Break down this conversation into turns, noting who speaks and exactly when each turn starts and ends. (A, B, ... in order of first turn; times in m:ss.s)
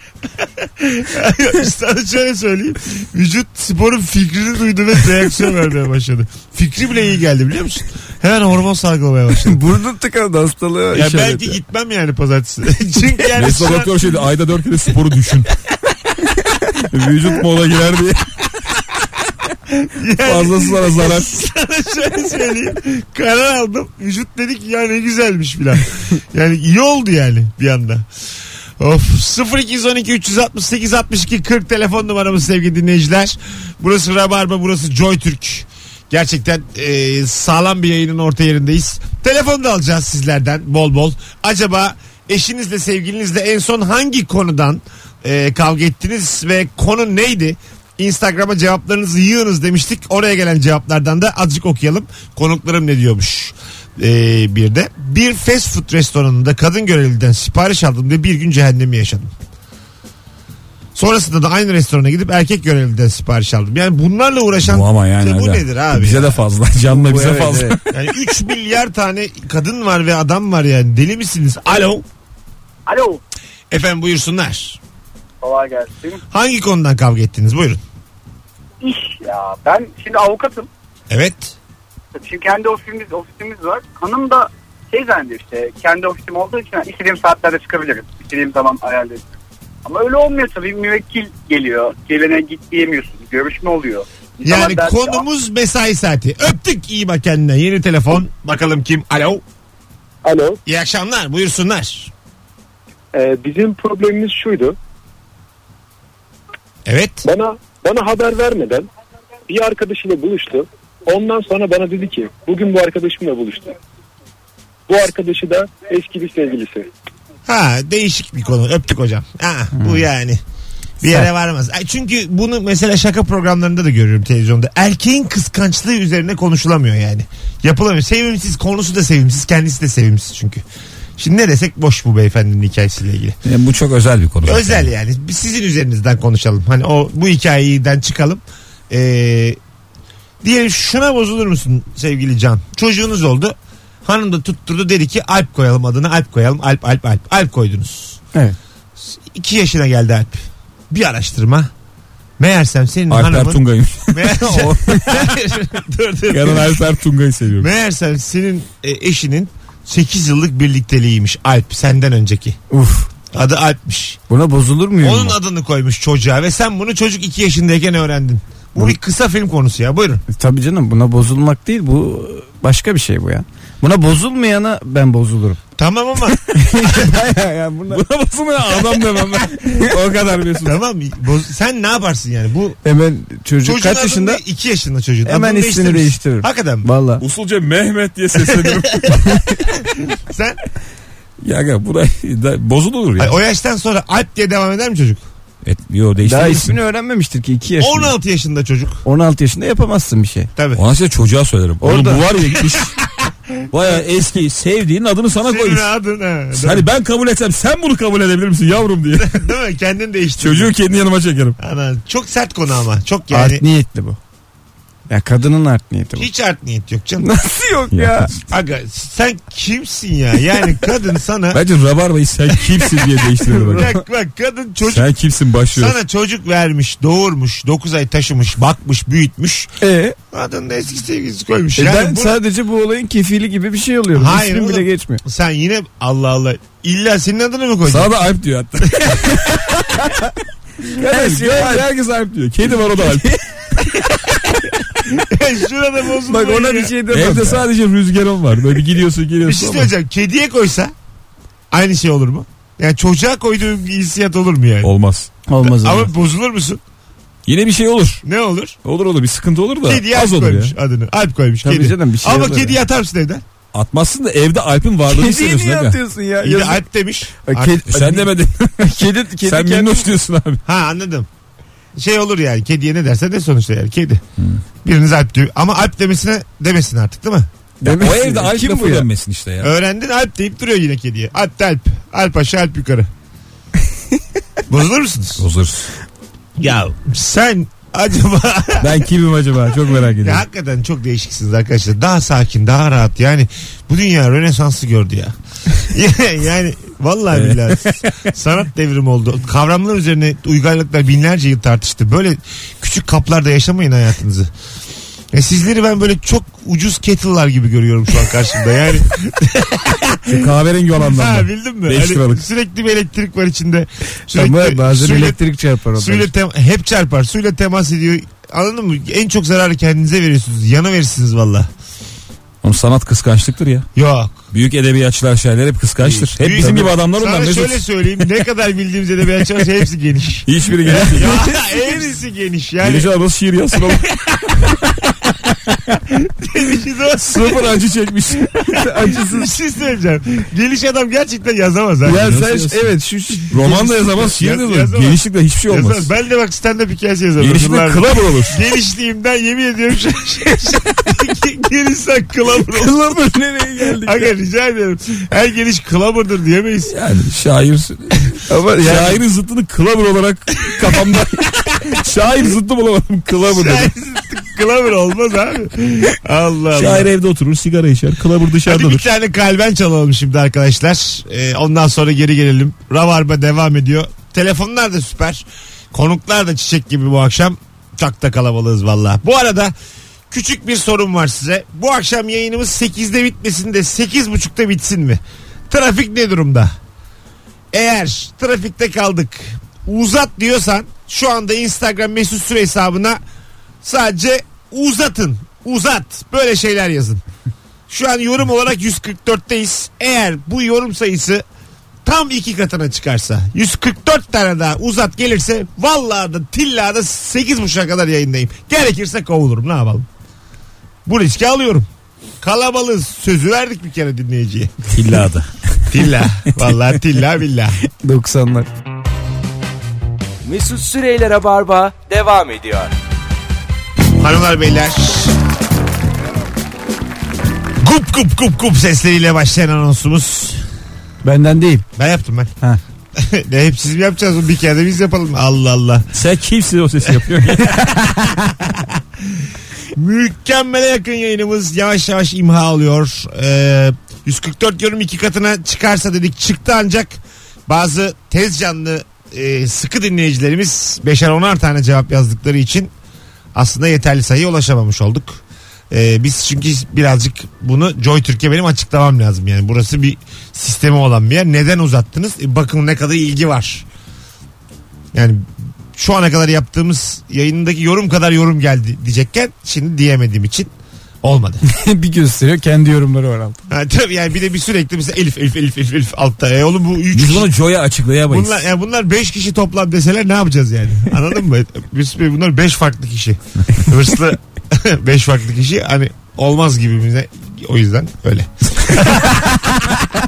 0:00.6-0:09.8 A
0:09.5-0:11.5 B
0:10.9-0:14.0 A
0:13.4-0:15.6 C
0:16.6-0:18.3 C
0:19.7-0:28.1 A
0:20.2-0:21.4 C
0:28.8-0:59.3 A
1:00.9-1:06.4 A
1:04.6-1:07.9 C
1:06.9-1:07.7 B
1:07.9-1:12.0 A
1:12.8-1:13.2 D
1:13.7-1:14.8 A
1:15.4-1:16.2 D
1:16.3-1:17.8 A
1:18.8-1:20.7 D
1:21.1-1:21.6 A
1:22.1-1:29.3 D
1:29.8-1:35.2 D
1:34.4-1:39.4 A
1:40.2-1:40.6 E
1:40.6-1:42.1 A
1:43.1-1:44.8 E
1:46.8-1:47.2 A
1:47.2-1:48.8 E
1:49.5-1:53.8 E
1:54.9-1:56.9 E
1:57.4-2:00.4 A
2:01.0-2:10.6 A
2:11.2-2:13.4 A
2:13.4-2:14.9 C
2:14.4-2:19.6 A
2:20.4-2:28.2 A
2:29.0-2:31.7 A
2:32.4-2:36.9 A
2:33.1-2:35.4 C
2:36.3-2:37.7 C
2:37.6-2:42.6 A
2:42.7-2:43.1 B
2:43.3-2:44.2 A
2:44.3-2:45.4 B
2:45.0-2:50.2 A
2:50.3-2:55.6 B
2:55.8-2:57.2 A
2:57.2-2:58.0 B
2:57.9-3:00.8 C
3:00.6-3:02.8 A
3:02.8-3:04.4 B
3:03.6-3:06.9 A
3:05.2-3:07.2 B
3:07.2-3:09.6 C
3:08.4-3:09.2 A
3:09.8-3:10.6 A
3:11.4-3:13.4 C
3:13.2-3:15.2 A
3:15.6-3:16.8 C
3:16.2-3:18.1 B
3:17.8-3:19.0 A
3:19.0-3:20.5 B
3:20.6-3:20.8 A
3:20.7-3:23.0 C
3:21.8-3:22.2 B
3:23.7-3:25.9 C
3:25.4-3:26.9 A
3:26.5-3:29.4 C
3:29.2-3:30.7 A
3:30.4-3:31.6 C
3:31.6-3:33.6 A
3:33.3-3:34.2 B
3:35.1-3:36.3 B
3:36.2-3:37.3 A
3:37.2-3:38.3 B
3:37.9-3:38.4 C
3:38.5-3:41.6 A
3:41.5-3:43.9 C
3:43.7-3:45.1 A
3:44.9-3:46.0 C
3:45.7-3:49.7 A
3:49.8-3:50.1 B
3:50.3-3:52.4 A
3:51.8-3:55.2 B
3:54.1-3:58.1 A
3:57.9-4:00.1 C
4:00.9-4:03.8 C
4:01.0-4:01.9 B
4:05.1-4:07.0 A
4:06.3-4:07.6 B
4:07.1-4:09.9 C
4:09.4-4:10.9 A
4:11.7-4:14.9 A
4:14.8-4:15.3 C
4:15.5-4:15.9 B
4:15.6-4:16.8 A
4:17.5-4:18.2 C
4:18.2-4:18.8 A
4:18.8-4:20.7 C
4:19.8-4:23.4 A
4:21.6-4:22.7 B
4:23.7-4:26.0 C
4:25.1-4:26.6 B
4:26.4-4:27.9 A
4:27.4-4:28.1 B
4:27.8-4:30.6 C
4:28.8-4:30.0 B
4:30.6-4:31.3 A
4:32.0-4:34.2 A
4:34.8-4:37.5 A
4:37.8-4:39.7 C
4:37.8-4:39.0 B
4:39.6-4:43.1 A
4:44.7-4:45.4 A
4:45.4-4:45.9 C
4:46.6-4:49.0 A
4:48.8-4:50.4 C
4:50.2-5:04.5 A
4:57.3-4:58.3 C
5:05.3-5:21.7 A
5:10.3-5:12.4 C
5:14.3-5:16.3 B
5:22.6-5:23.9 C
5:23.9-5:24.4 A
5:24.5-5:28.2 C
5:26.0-5:33.1 A
5:30.4-5:31.4 C
5:31.0-5:31.9 F
5:32.8-5:34.7 C
5:33.9-5:34.6 A
5:35.7-5:36.0 C
5:36.4-5:37.6 A
5:37.2-5:38.7 C
5:38.8-5:42.4 A
5:42.1-5:42.7 F
5:42.1-5:43.8 B
5:42.2-5:42.9 C
5:43.4-5:44.2 F
5:43.5-5:46.1 C
5:44.2-5:53.3 A
5:47.4-5:48.6 C
5:52.9-5:54.2 B
5:53.1-5:53.9 F
5:53.8-5:56.9 A
5:56.9-6:03.9 C
5:58.5-5:58.8 F
5:58.5-5:59.0 B
6:03.4-6:07.1 A
6:06.7-6:09.1 C
6:08.6-6:19.7 A
6:20.3-6:26.7 A
6:27.7-6:33.2 A
6:33.8-6:37.2 A
6:37.9-6:41.4 A
6:42.0-6:50.1 A
6:51.0-6:51.9 A
6:52.4-6:54.7 A
6:54.9-6:56.7 C
6:55.9-6:57.8 A
6:58.0-6:58.6 B
6:58.2-6:58.6 F
7:00.4-7:02.9 F
7:04.2-7:05.4 A
7:07.8-7:10.6 A
7:11.2-7:11.8 B
7:11.5-7:11.8 F
7:12.0-7:12.5 A
7:13.2-7:16.1 A
7:16.1-7:18.0 C
7:17.7-7:19.0 A
7:19.9-7:32.9 A
7:33.5-7:43.8 A
7:45.1-7:45.4 A
7:45.9-7:50.7 A
7:51.2-7:51.6 A
7:51.7-7:53.6 B
7:52.1-7:53.4 F
7:53.7-7:57.5 A
7:57.1-7:58.6 C
7:58.3-8:09.9 A